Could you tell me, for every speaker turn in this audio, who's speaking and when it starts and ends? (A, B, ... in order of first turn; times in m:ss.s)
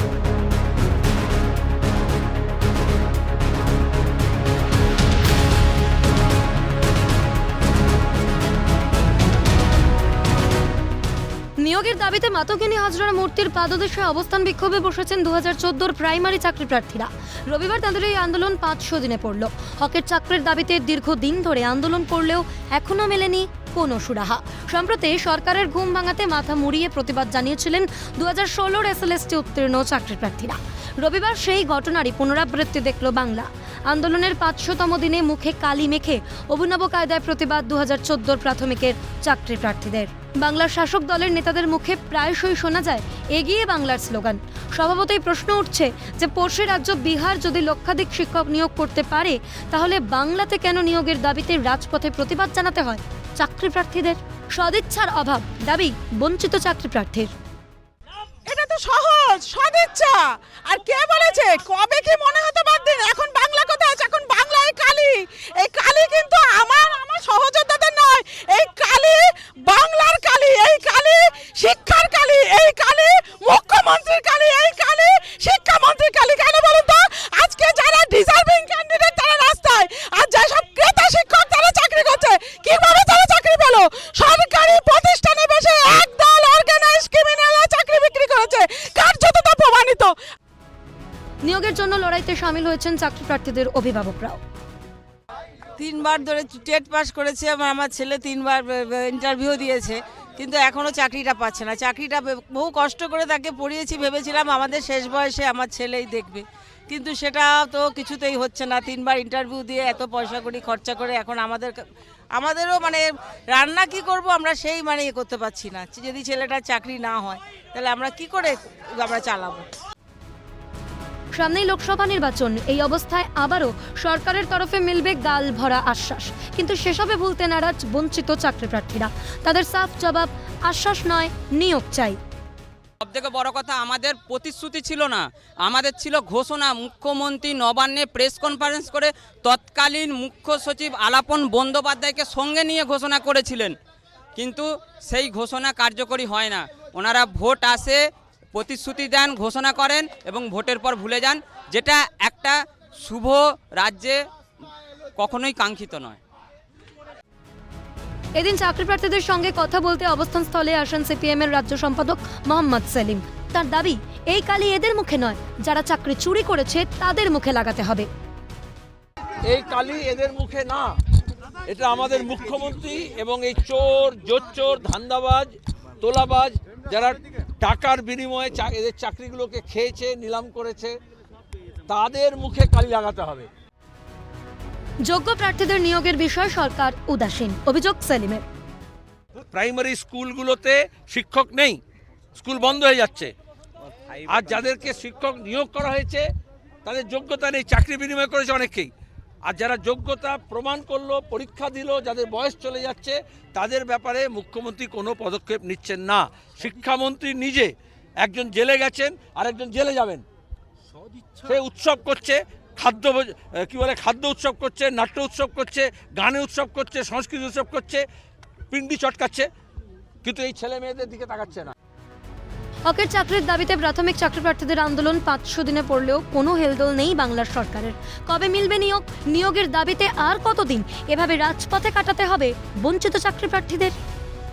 0:11.6-0:57.3 A
0:58.4-1:30.2 B
1:31.4-1:34.4 A
1:35.8-1:51.8 C
1:52.3-1:59.7 C
2:01.3-2:12.2 A
2:13.0-2:23.8 D
2:24.3-2:28.0 D
2:28.5-2:34.2 D
2:35.2-2:36.2 D
2:38.4-2:48.1 A
2:49.5-2:50.9 E
2:51.7-3:01.0 E
3:01.9-3:03.5 E
3:05.0-3:08.4 A
3:09.5-3:11.8 E
3:12.4-3:13.3 E
3:14.1-3:16.2 E
3:16.8-3:18.9 E
3:19.4-3:30.2 E
3:31.4-3:38.0 E
3:38.7-3:39.5 E
3:40.2-3:41.7 E
3:42.9-3:54.0 A